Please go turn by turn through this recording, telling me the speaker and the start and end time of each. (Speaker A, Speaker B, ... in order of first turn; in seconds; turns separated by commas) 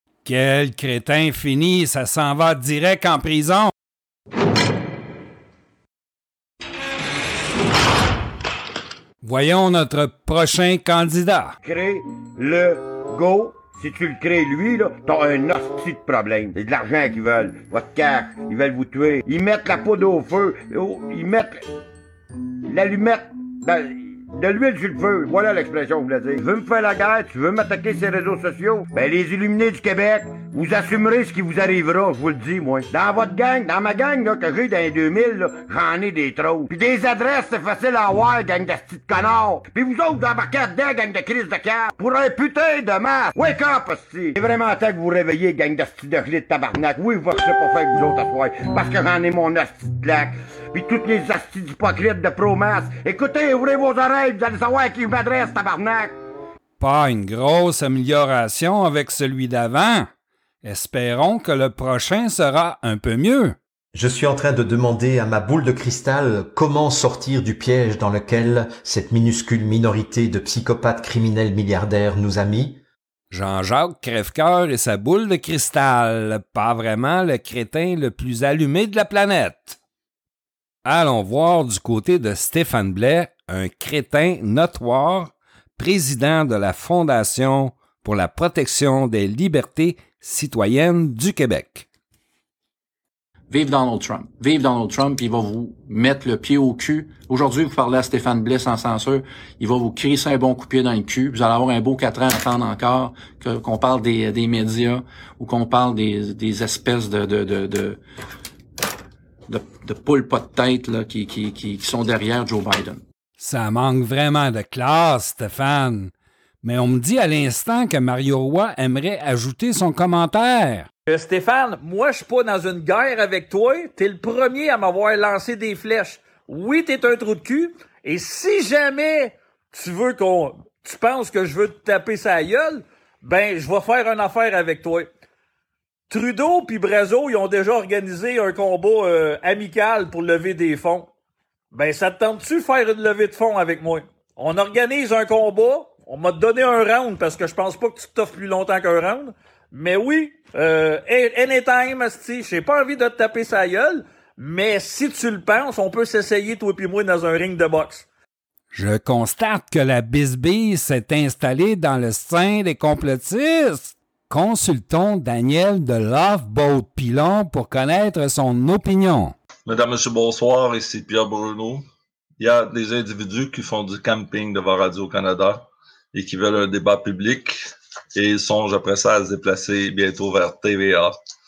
Speaker A: 0.2-3.7, Speaker A: 9.2-11.6, Speaker B: 11.6-21.6, Speaker B: 22.7-56.1, Speaker A: 56.8-60.1, Speaker A: 60.6-63.6, Speaker C: 63.9-72.8, Speaker A: 73.3-79.8, Speaker A: 80.8-91.8, Speaker D: 93.5-108.0, Speaker D: 109.5-113.0, Speaker A: 113.4-120.9, Speaker E: 121.1-135.1, Speaker E: 136.1-141.1, Speaker E: 141.7-158.0, Speaker A: 158.7-169.3, Speaker F: 169.7-171.8, Speaker F: 172.4-177.6, Speaker F: 178.1-181.2